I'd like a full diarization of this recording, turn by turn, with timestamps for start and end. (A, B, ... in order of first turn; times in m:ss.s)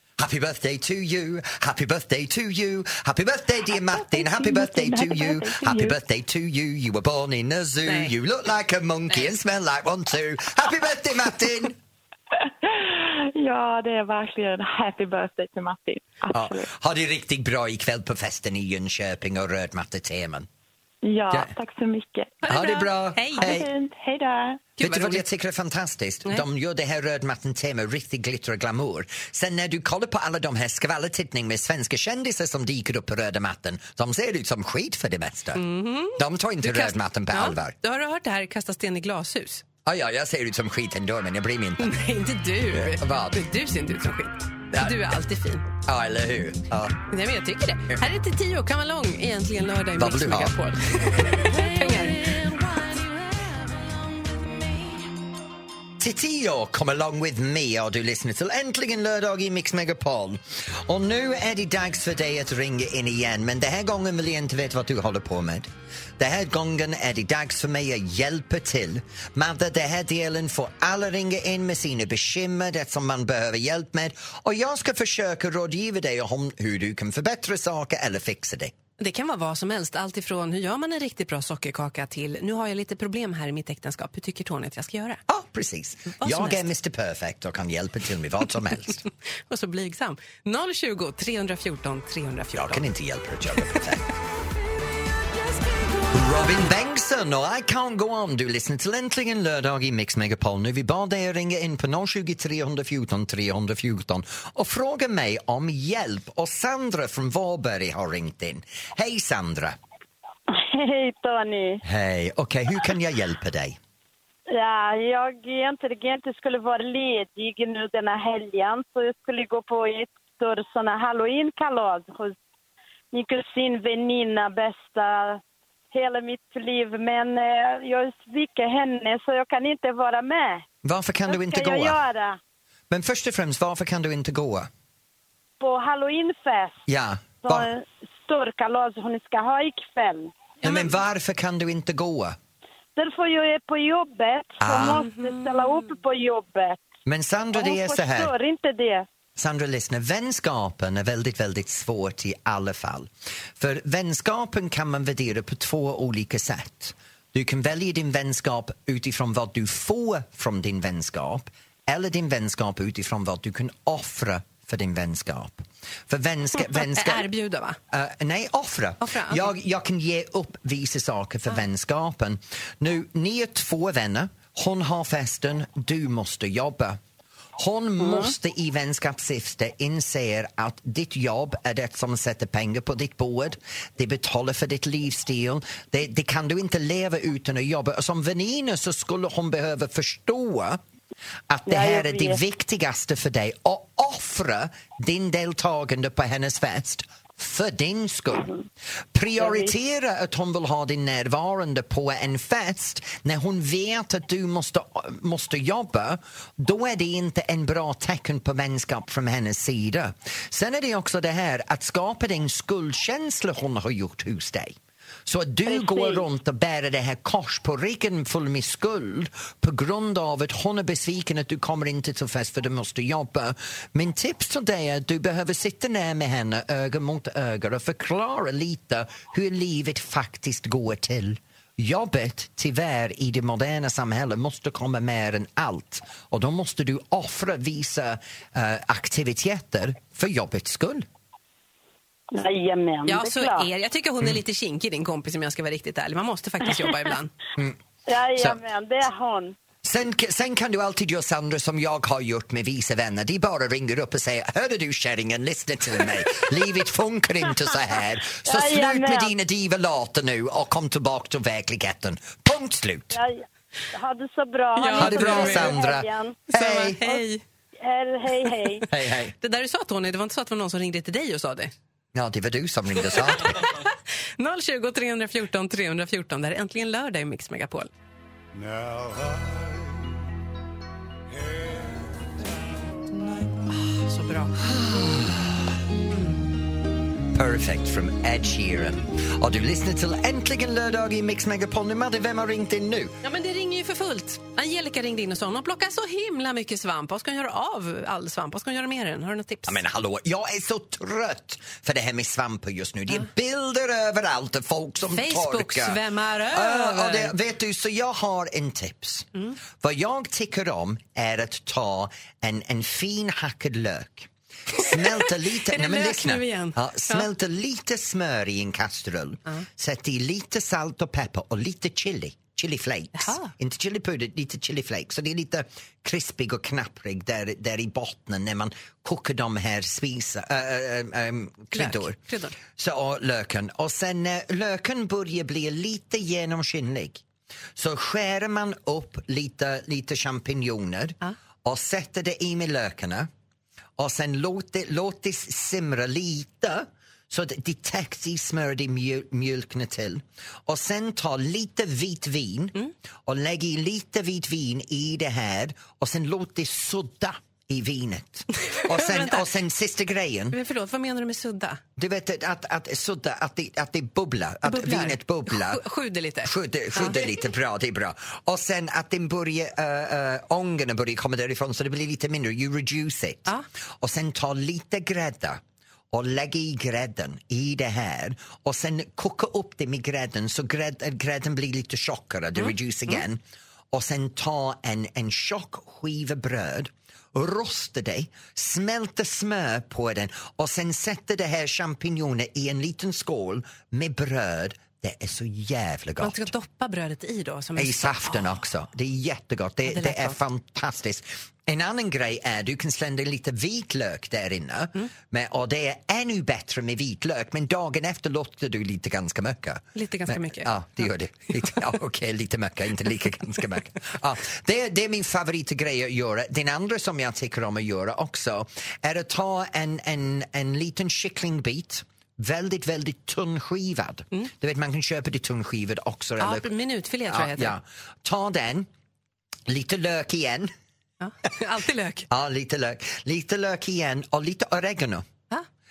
0:00.2-0:11.8 A
0:03.8-0:06.0 B
0:07.9-0:08.1 C
0:12.4-0:16.7 B
0:16.3-0:20.5 A
0:21.0-0:22.4 B
0:22.4-0:23.5 C
0:22.5-0:23.7 A
0:23.4-0:24.6 B
0:24.8-0:25.2 C
0:24.8-0:35.6 A
0:35.6-0:39.6 C
0:36.2-0:37.8 A
0:39.9-0:41.9 A
0:41.8-0:45.7 C
0:42.7-0:43.4 A
0:44.7-0:45.0 A
0:45.9-0:47.0 A
0:47.1-0:52.5 C
0:50.0-0:50.5 A
0:56.0-1:18.8 A
1:19.0-1:25.2 C
1:25.3-1:29.0 A
1:26.2-1:26.7 C
1:29.5-1:32.8 C
1:32.6-1:34.1 A
1:36.1-1:49.8 A
1:50.5-1:51.8 D
1:51.8-1:53.8 A
1:54.5-2:02.4 D
2:03.1-2:05.4 D
2:05.9-2:10.6 D
2:10.8-2:12.0 A
2:11.3-2:12.4 D
2:12.9-2:14.7 A
2:15.6-2:16.8 D
2:16.9-2:17.7 A
2:17.4-2:20.3 D
2:20.6-2:21.0 C
2:20.6-2:22.4 A
2:23.0-2:26.8 D
2:24.6-2:25.0 A
2:24.9-2:26.0 C
2:27.1-2:28.3 A
2:27.5-2:29.1 D
2:29.4-2:47.3 A
2:46.7-2:47.8 C
2:47.9-2:57.0 A
2:49.0-2:49.5 C
2:57.6-3:10.8 A
3:11.5-3:18.5 A
3:11.7-3:12.4 D
3:19.1-4:01.1 A
3:19.4-3:19.7 D
3:35.7-3:36.2 D
4:02.3-4:03.7 D
4:03.1-4:07.3 C
4:08.1-4:09.6 D
4:09.8-4:23.2 A
4:18.4-4:19.3 D
4:23.1-4:26.4 D
4:24.8-4:25.8 C
4:25.0-4:27.0 A
4:26.5-4:27.4 C
4:27.8-4:28.9 D
4:28.9-4:29.3 A
4:29.4-4:31.7 C
4:32.1-4:33.7 A
4:33.5-4:33.9 C
4:34.4-4:37.9 C
4:43.7-4:44.6 C
4:44.6-4:45.7 A
4:46.1-4:46.4 C
4:47.3-4:53.1 A
4:53.2-4:59.8 C
4:59.7-5:06.0 A
5:05.1-5:07.3 C
5:06.5-5:32.2 A
5:14.8-5:17.3 C
5:23.2-5:23.5 C
5:31.7-5:32.6 C
5:32.7-5:37.2 A
5:37.8-5:43.3 A
5:44.0-6:00.6 A
5:58.7-5:59.5 C
6:00.5-6:01.8 C
6:02.0-6:05.8 A
6:04.6-6:07.2 C
6:06.4-6:15.6 A
6:16.1-6:36.5 A
6:22.6-6:23.2 C
6:36.2-6:38.5 C
6:37.8-7:06.7 A
6:39.9-6:40.4 C
6:50.0-6:50.8 C
7:06.4-7:07.7 C
7:07.3-7:08.9 A
7:09.7-7:10.7 A
7:11.2-7:12.3 C
7:12.3-7:15.3 A